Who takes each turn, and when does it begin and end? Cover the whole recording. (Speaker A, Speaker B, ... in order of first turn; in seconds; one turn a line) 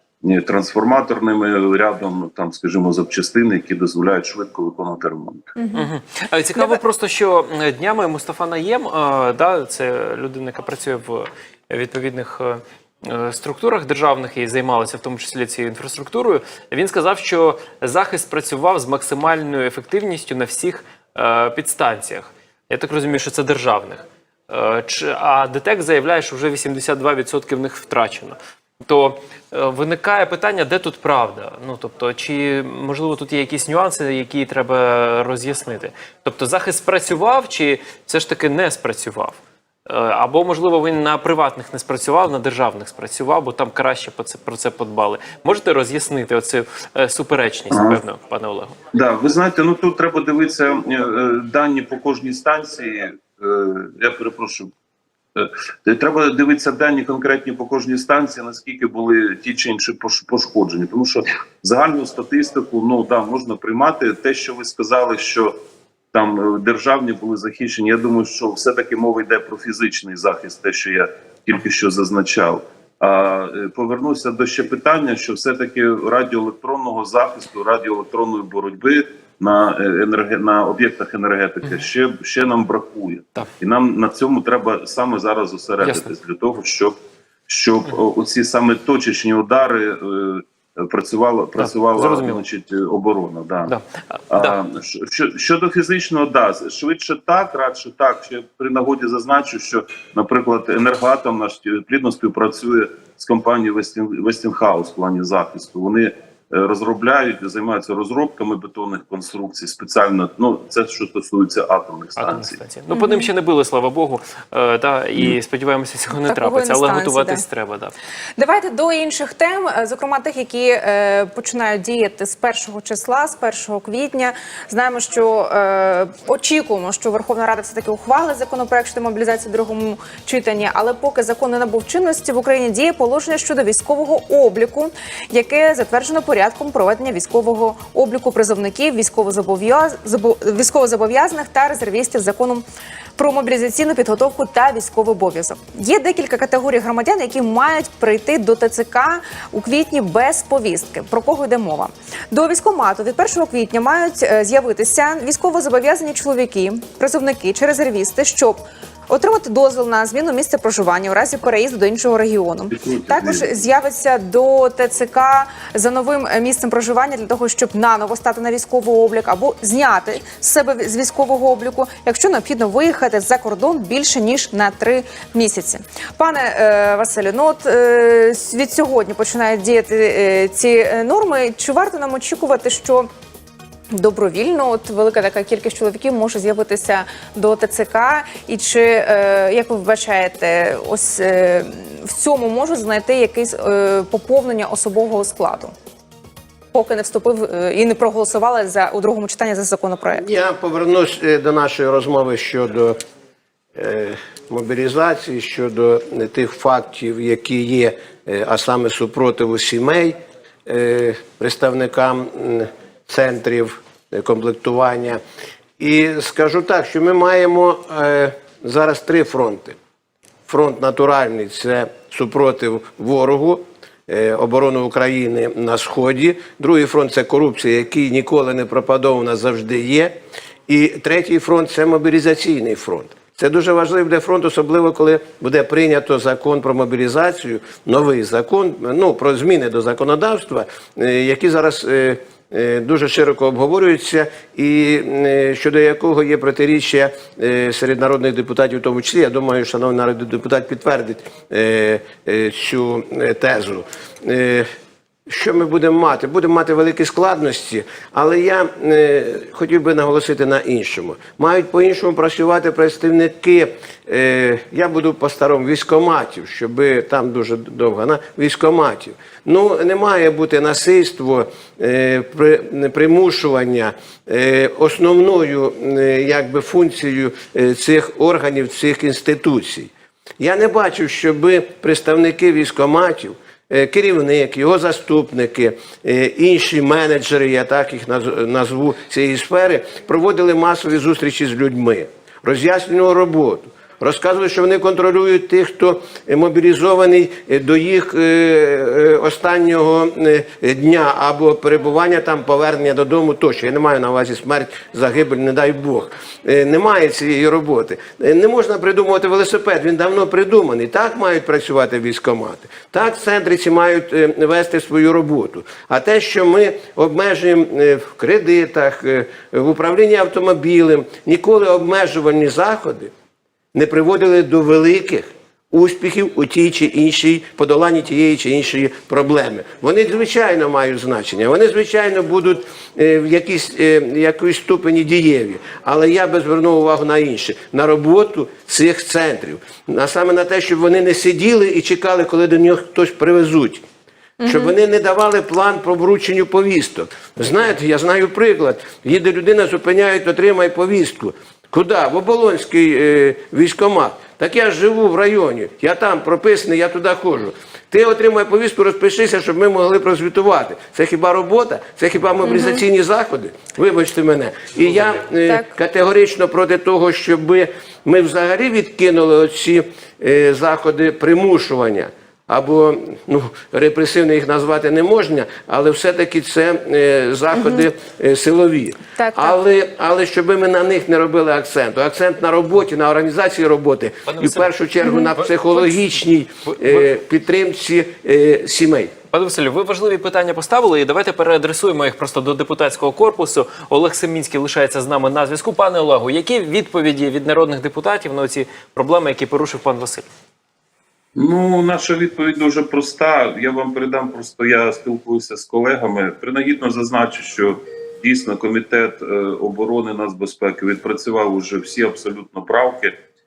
Speaker A: 0.2-5.5
Speaker B: 5.6-5.9
Speaker C: 5.7-48.7
Speaker A: 47.7-48.0
Speaker A: 48.9-54.7
Speaker A: 55.4-65.5
Speaker A: 66.1-87.0
Speaker C: 85.8-86.1
Speaker A: 87.5-93.7
Speaker C: 91.6-92.4
Speaker C: 93.7-94.6
Speaker A: 94.3-112.6
Speaker C: 112.2-118.0
Speaker B: 112.9-113.3
Speaker B: 116.2-117.4
Speaker B: 118.4-142.6
Speaker B: 143.2-183.1
Speaker A: 162.7-163.6
Speaker B: 183.9-195.7
Speaker B: 196.7-200.2
Speaker D: 200.2-203.0
Speaker D: 203.8-215.2
Speaker D: 215.8-219.8
Speaker D: 220.5-230.1
Speaker D: 230.7-254.7
Speaker D: 255.3-323.1
Speaker D: 323.7-343.8
Speaker B: 344.4-344.8
Speaker D: 344.5-389.1
Speaker B: 362.4-362.8
Speaker B: 377.5-377.9
Speaker B: 379.2-379.6
Speaker C: 384.3-384.7
Speaker B: 385.0-385.3
Speaker C: 385.4-386.0
Speaker C: 389.3-400.3
Speaker A: 401.4-413.2